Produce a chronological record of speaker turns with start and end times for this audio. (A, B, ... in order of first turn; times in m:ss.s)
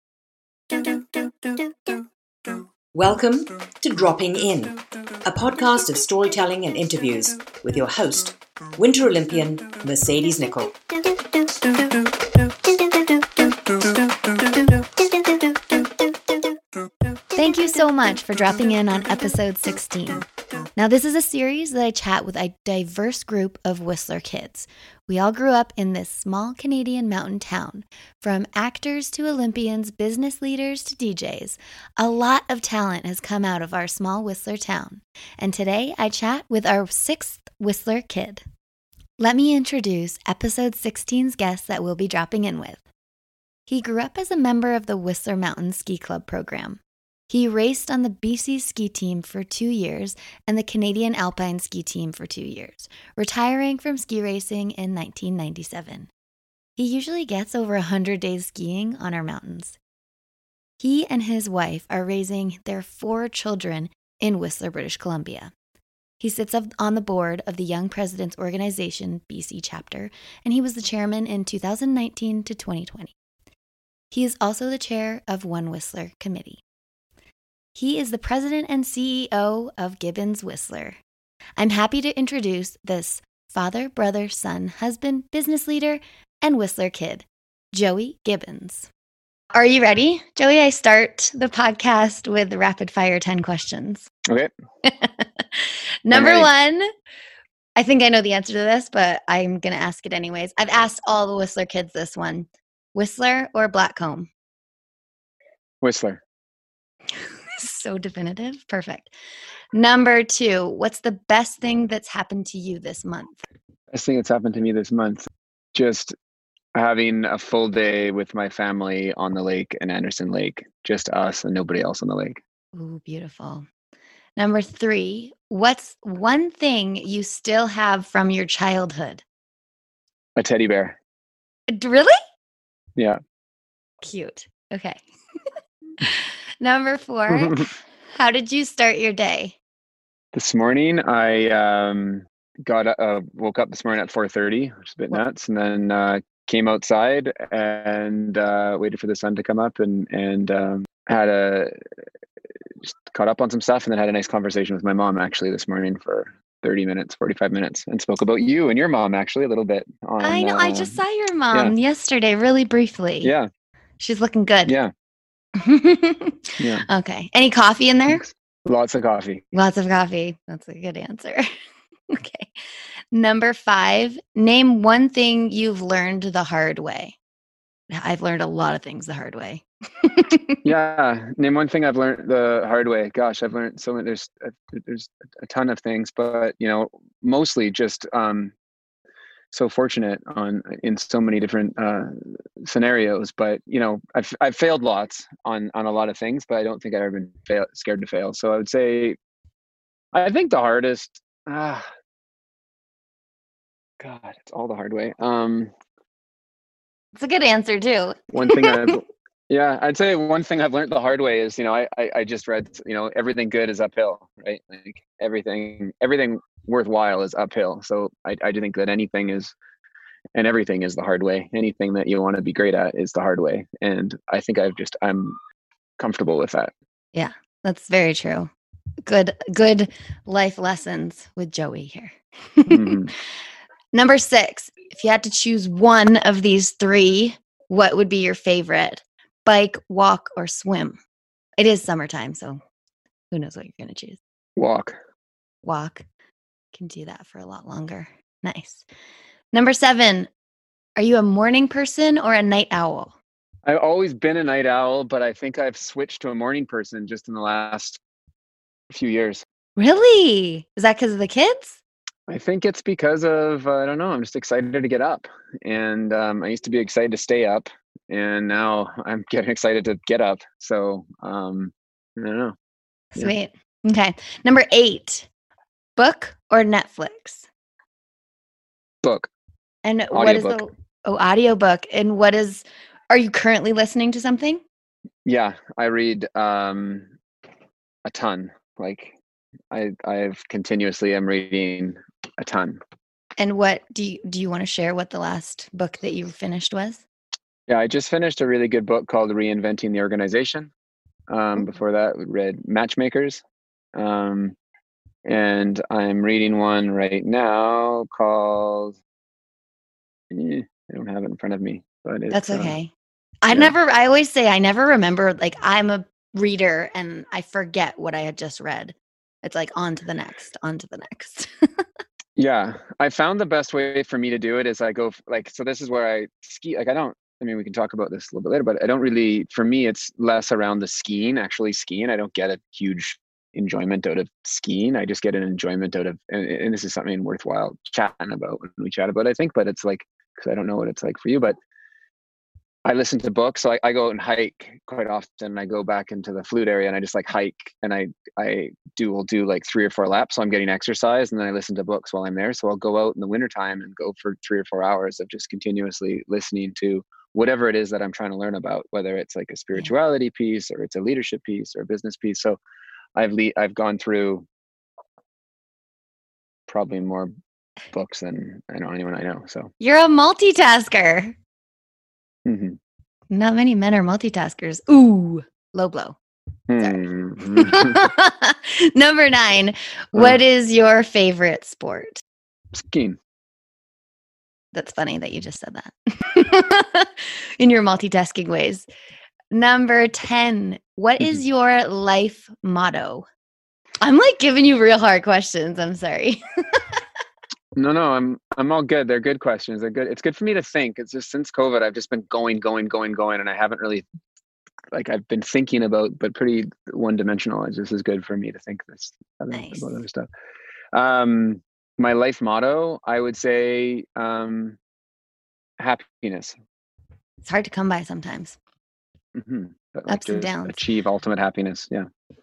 0:02.9-0:10.8 A
0:17.4-0:38.4 B
0:39.2-0:42.8 B
0:43.7-0:56.1 B
0:56.8-0:59.8 B
1:00.8-1:05.5 B
1:06.2-1:13.1 B
1:14.1-1:16.6 B
1:17.8-1:21.0 B
1:21.6-1:28.9 B
1:29.5-1:34.1 B
1:34.8-1:36.9 B
1:36.1-1:36.5 C
1:37.8-1:44.3 B
1:45.8-1:46.2 C
1:47.6-1:49.1 B
1:49.7-1:53.4 B
1:53.9-1:56.2 C
1:56.8-2:02.4 C
2:02.7-2:03.7 B
2:04.4-2:09.2 B
2:10.4-2:11.0 C
2:11.7-2:12.2 B
2:14.0-2:15.0 B
2:16.0-2:19.6 B
2:17.3-2:17.7 C
2:20.3-2:31.7 C
2:33.1-2:41.0 C
2:40.2-2:43.3 B
2:43.2-2:43.5 C
2:44.0-2:44.8 B
2:44.7-2:44.9 C
2:45.6-2:48.2 B
2:46.6-2:46.9 C
2:48.1-2:49.4 C
2:49.5-2:51.5 B
2:52.1-2:52.5 B
2:53.1-2:57.2 B
2:57.9-3:00.6 B
3:00.6-3:08.5 C
3:09.5-3:19.2 C
3:20.1-3:21.9 C
3:24.0-3:25.7 C
3:27.2-3:29.0 B
3:28.3-3:39.5 C
3:40.3-3:45.4 C
3:46.0-3:46.7 C
3:47.2-3:48.5 B
3:49.1-3:53.1 B
3:52.7-3:53.1 C
3:53.9-4:01.0 B
4:01.6-4:02.6 B
4:03.3-4:04.2 B
4:04.6-4:05.0 C
4:05.6-4:06.0 B
4:06.7-4:08.8 B
4:09.5-4:10.3 B
4:11.0-4:13.1 B
4:13.7-4:18.0 C
4:18.9-4:19.4 C
4:19.8-4:21.8 B
4:22.3-4:32.6 C
4:33.2-4:35.3 B
4:36.0-4:37.5 B
4:39.0-4:39.3 C
4:39.8-4:44.6 B
4:40.1-4:40.6 C
4:45.2-4:47.1 C
4:48.1-4:49.2 C
4:49.7-4:52.8 C
4:53.4-4:57.0 B
4:57.7-5:00.7 C
5:01.3-5:03.4 C
5:04.0-5:04.6 C
5:05.3-5:09.0 C
5:10.3-5:12.8 C
5:12.3-5:12.9 B
5:13.4-5:21.5 B
5:22.4-5:41.6 C
5:42.8-6:02.6 C
6:03.2-6:04.5 C
6:06.7-6:07.3 C
6:07.9-6:09.7 C
6:09.8-6:11.4 B
6:12.5-6:12.8 C
6:13.3-6:16.2 B
6:16.7-6:18.0 C
6:16.8-6:22.2 B
6:20.2-6:20.4 C
6:22.8-6:23.2 C
6:24.7-6:28.9 B
6:29.5-6:33.3 B
6:34.0-6:37.0 B
6:37.8-6:44.0 C
6:44.9-6:50.3 C
6:49.5-6:49.9 B
6:50.9-6:54.8 C
6:55.8-6:56.6 C
6:57.4-6:58.6 B
6:59.4-7:02.1 C
7:00.1-7:00.8 B